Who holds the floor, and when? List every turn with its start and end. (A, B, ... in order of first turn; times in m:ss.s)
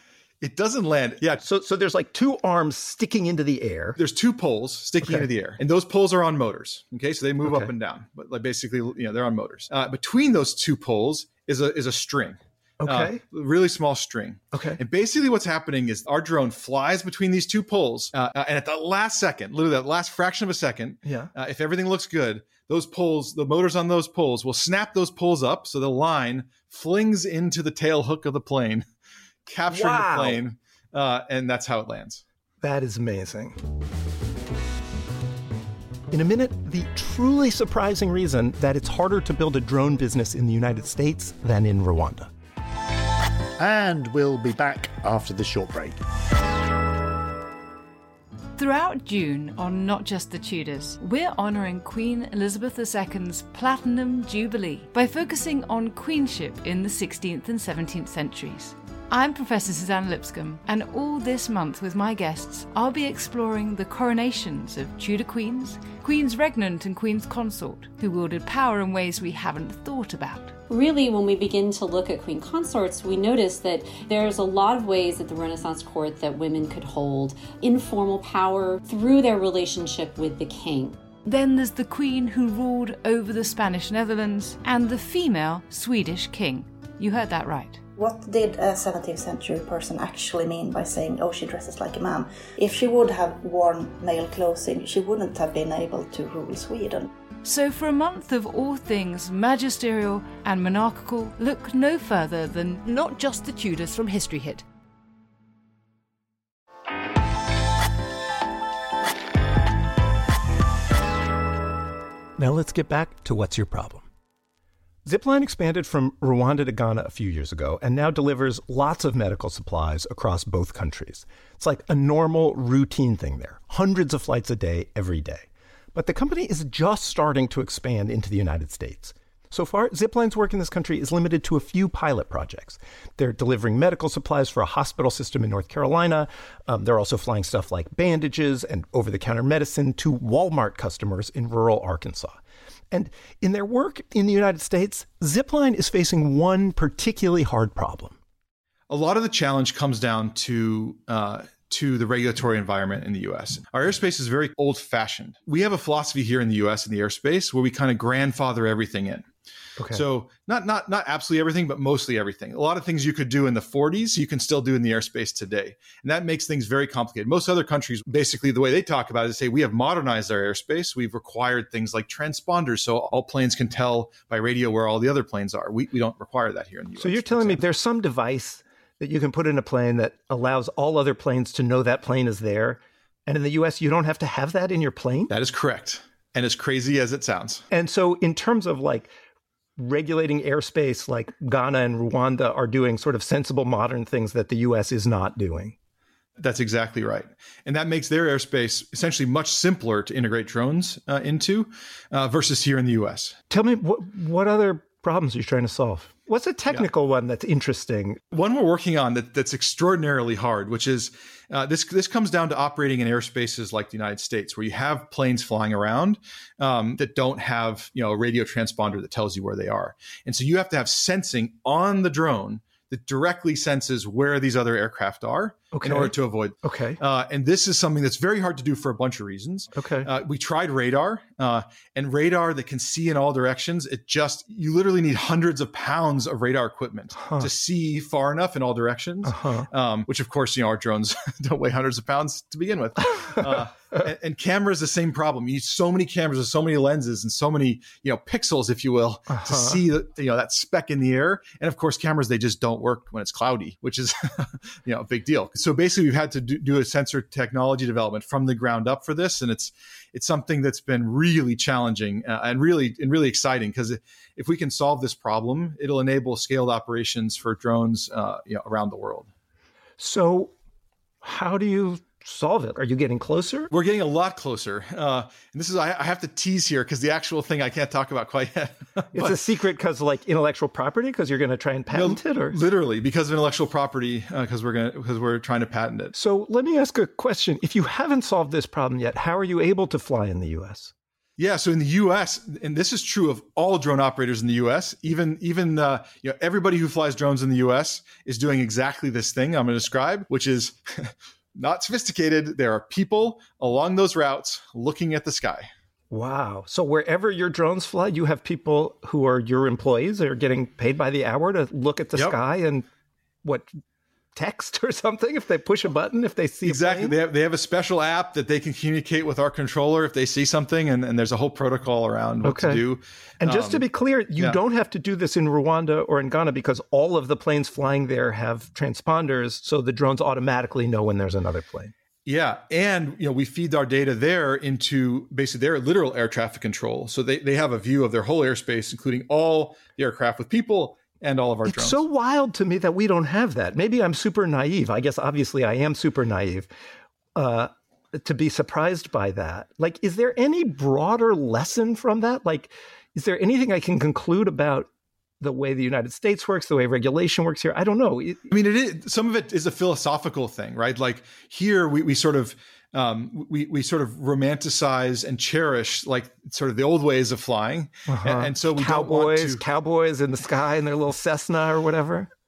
0:00.4-0:01.4 A
0:01.4-0:04.0 B
0:04.0-0:28.8 A
0:07.4-0:07.7 B
0:12.8-0:13.2 B
0:14.5-0:14.8 B
0:21.0-0:21.3 B
0:29.5-0:32.2 A
0:29.7-0:30.4 B
0:32.6-0:33.6 B
0:36.1-0:42.3 B
0:43.6-0:46.0 C
0:48.6-1:10.5 D
1:10.7-1:21.0 E
1:21.2-1:27.8 D
1:28.0-1:37.1 F
1:37.4-1:44.6 D
1:52.4-1:54.1 B
1:55.0-2:22.4 B
2:22.9-2:28.2 B
2:28.9-2:39.2 A
2:39.8-2:40.0 B
2:39.9-2:57.6 A
2:57.0-3:05.3 B
3:05.3-3:07.6 A
3:07.7-3:09.1 B
3:09.8-3:15.8 B
3:16.4-3:23.4 A
3:23.5-3:28.2 B
3:28.3-4:29.3 A
3:45.7-3:47.0 B
3:49.8-3:50.1 B
3:57.2-3:57.5 B
3:59.2-3:59.7 B
4:09.3-4:09.8 B
4:30.0-4:30.5 B
4:31.2-4:33.7 B
4:33.7-4:39.4 A
4:39.1-4:42.6 B
4:41.9-4:46.1 A
4:46.1-4:50.9 B
4:51.4-5:05.7 A
5:06.1-5:12.9 B
5:13.4-5:13.8 B
5:14.3-5:17.2 B
5:16.6-5:23.8 A
5:22.4-5:22.8 B
5:23.4-5:31.9 B
5:32.2-5:42.0 A
5:41.6-5:46.7 B
5:47.4-5:54.9 B
5:55.4-5:58.5 B
5:58.5-6:09.6 A
6:08.1-6:12.3 B